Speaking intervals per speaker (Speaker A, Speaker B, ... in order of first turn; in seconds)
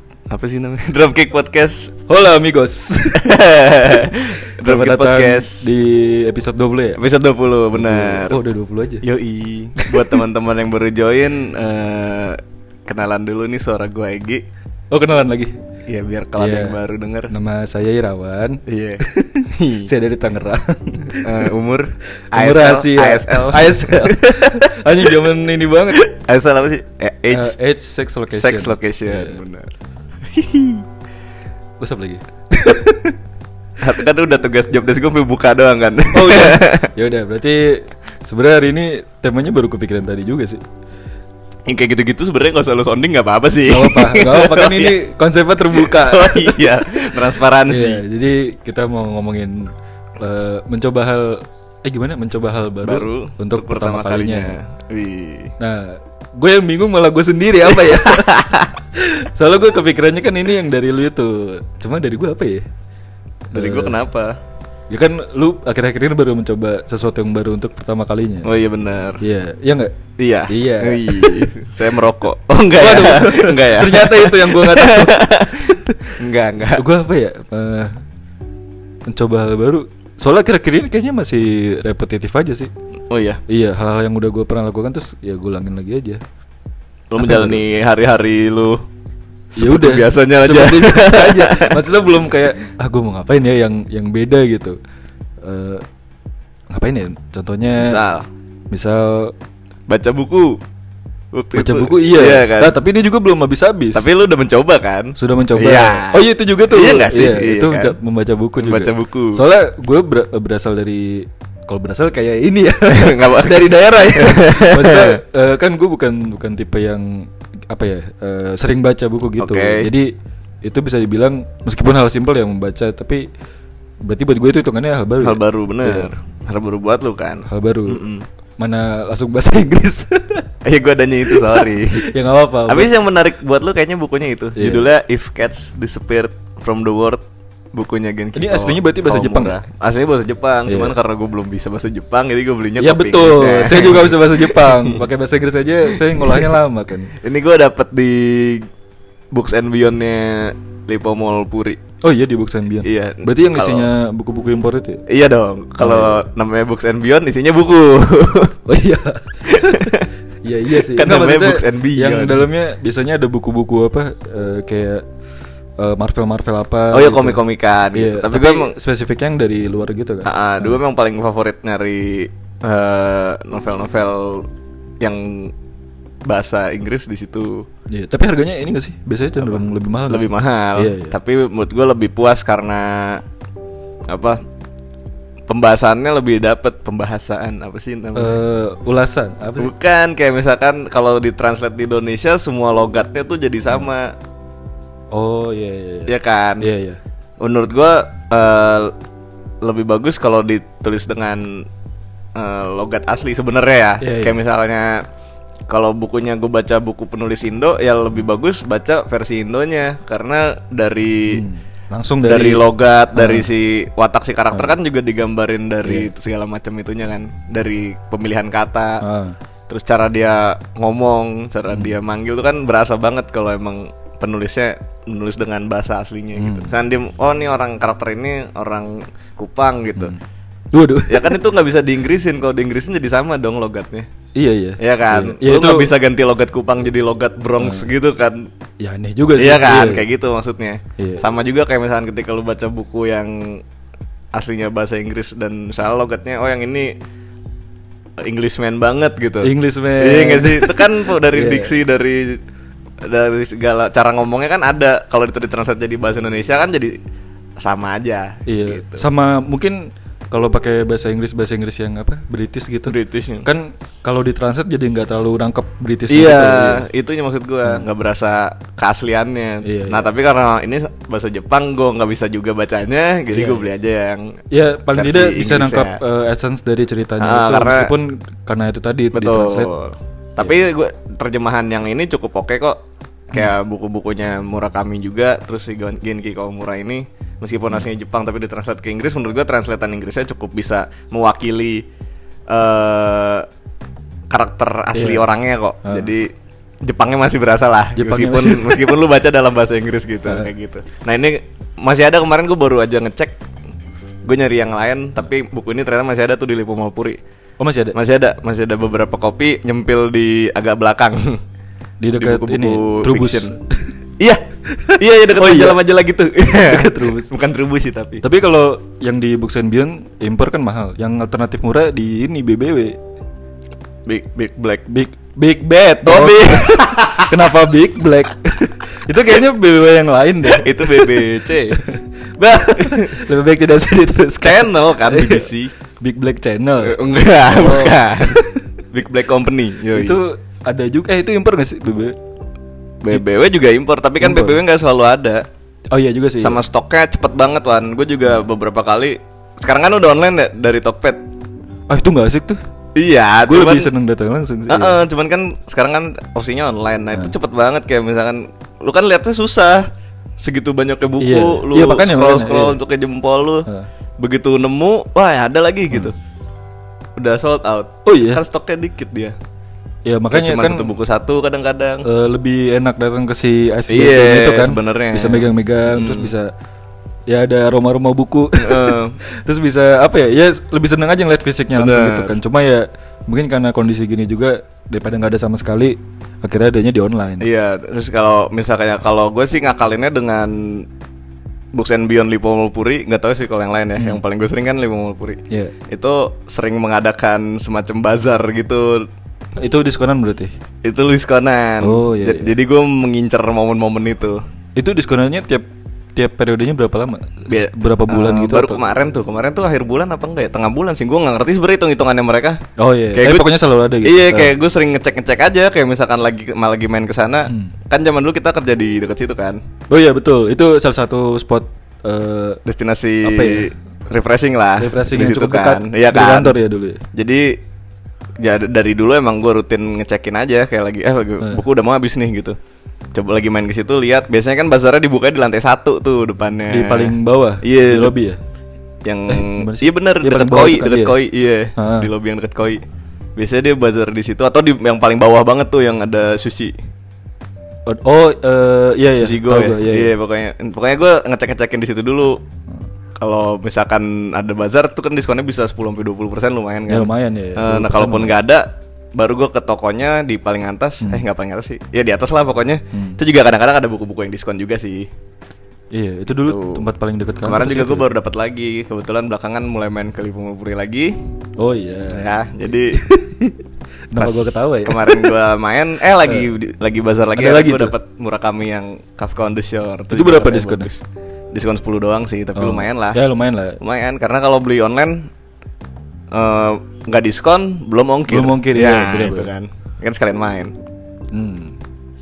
Speaker A: 0.3-1.9, 3.1-5.7, 7.0-8.4, 9.0-14.4, 15.9-17.3, 18.7-19.9, 21.2-25.3, 25.9-27.6, 28.3-29.7, 30.3-30.9, 33.8-36.9, 41.7-45.0, 45.7-48.0, 52.8-55.5, 57.7-58.7, 63.5-64.4, 68.4-69.2, 70.2-76.8, 83.1-83.4, 87.1-88.8, 89.6-91.8, 97.8-98.3, 99.9-100.6, 101.3-102.8, 103.9-108.0, 108.6-109.4, 112.9-115.2, 119.4-119.9, 125.2-128.3, 130.6-132.1, 132.7-145.0, 145.9-146.6, 147.2-148.7, 149.3-151.8, 152.8-153.9, 155.1-158.6, 159.5-160.1, 160.7-162.5, 166.9-168.7, 170.2-174.5, 175.0-175.5, 176.3-177.7, 179.4-183.2, 184.1-184.4, 185.5-188.4, 189.6-194.2, 196.1-196.7, 197.4-198.9, 199.6-201.7, 202.4-205.0, 205.7-211.5, 212.2-219.0, 219.7-230.1, 231.1-234.1, 234.8-238.5, 239.4-243.6, 244.3-246.9, 248.2-252.4, 253.0-256.9, 257.6-259.1, 262.9-263.5, 266.1-274.4, 274.9-276.0, 277.2-277.9, 279.1-291.9, 292.5-293.5, 294.3-296.3, 296.9-303.4, 304.2-307.2, 307.9-311.4, 312.2-313.5, 315.0-318.2, 324.1-324.9, 326.1-327.5, 330.5-331.8, 332.6-333.1, 334.4-335.7, 336.8-338.4, 338.9-340.2, 343.0-345.4, 346.4-351.2, 353.0-353.9, 354.7-363.7, 364.2-366.1, 367.2-369.4, 370.3-372.1, 373.9-376.3, 378.6-379.2, 381.8-382.4, 387.4-390.9, 391.8-399.1, 400.9-404.4, 407.5-412.6, 413.1-419.6, 422.7-426.6, 427.1-427.6, 428.4-432.6, 433.1-438.1, 439.1-442.8, 443.4-446.7, 449.1-452.4, 453.2-465.1, 466.5-466.8, 467.4-471.1, 472.1-473.0, 474.2-483.2, 483.8-485.3, 486.3-490.7
Speaker B: 2.1-3.4, 4.6-7.0, 7.8-9.1, 9.8-10.2, 14.9-15.5, 16.4-21.5, 22.3-26.0, 27.3-29.4, 31.8-33.2, 36.1-40.6, 43.7-46.7, 47.7-54.5, 55.6-58.4, 58.9-62.6, 63.5-64.0, 64.9-68.5, 69.2-69.9, 70.5-71.5, 72.8-76.1, 76.8-78.0, 79.1-82.7, 83.5-86.2, 87.2-87.6, 89.6-94.8, 95.4-95.8, 96.7-98.0, 98.7-99.3, 101.5-104.1, 105.2-120.1, 120.6-123.2, 124.1-126.1, 127.5-128.0, 128.6-130.5, 131.3-132.9, 134.6-134.9, 138.4-139.6, 140.7-140.9, 142.8-147.1, 152.0-155.0, 155.8-156.3, 158.7-165.1, 165.8-167.4, 167.9-170.8, 177.9-181.2, 188.2-189.7, 195.1-197.0, 204.0-204.4, 211.3-213.5, 219.0-219.4, 226.3-226.7, 230.7-231.4, 234.3-235.9, 237.6-237.9, 238.8-240.1, 241.0-241.2, 249.4-251.8, 258.5-266.9, 269.6-270.1, 273.3-273.7, 274.5-279.7, 294.9-295.3, 295.8-296.1, 298.0-298.9, 307.6-308.0, 312.0-313.9, 314.8-315.8, 316.5-317.3, 318.2-323.0, 324.9-338.6, 339.9-342.2, 344.2-344.6, 345.9-346.6, 351.9-352.6, 353.5-355.0, 361.2-362.8, 368.1-368.4, 370.1-370.9, 372.0-376.5, 377.3-387.5, 399.6-400.5, 401.8-402.5, 404.8-408.8, 412.8-414.5, 417.5-417.7, 419.9-422.6, 423.2-423.7, 424.8-427.0, 436.7-438.4, 439.3-441.2, 441.8-442.1, 447.9-450.1, 456.9-458.4, 462.9-463.2, 465.9-468.1, 471.6-472.3, 472.9-473.6, 474.1-475.3, 477.4-477.9, 480.1-480.9, 482.6-483.8, 488.3-489.5, 491.3-491.8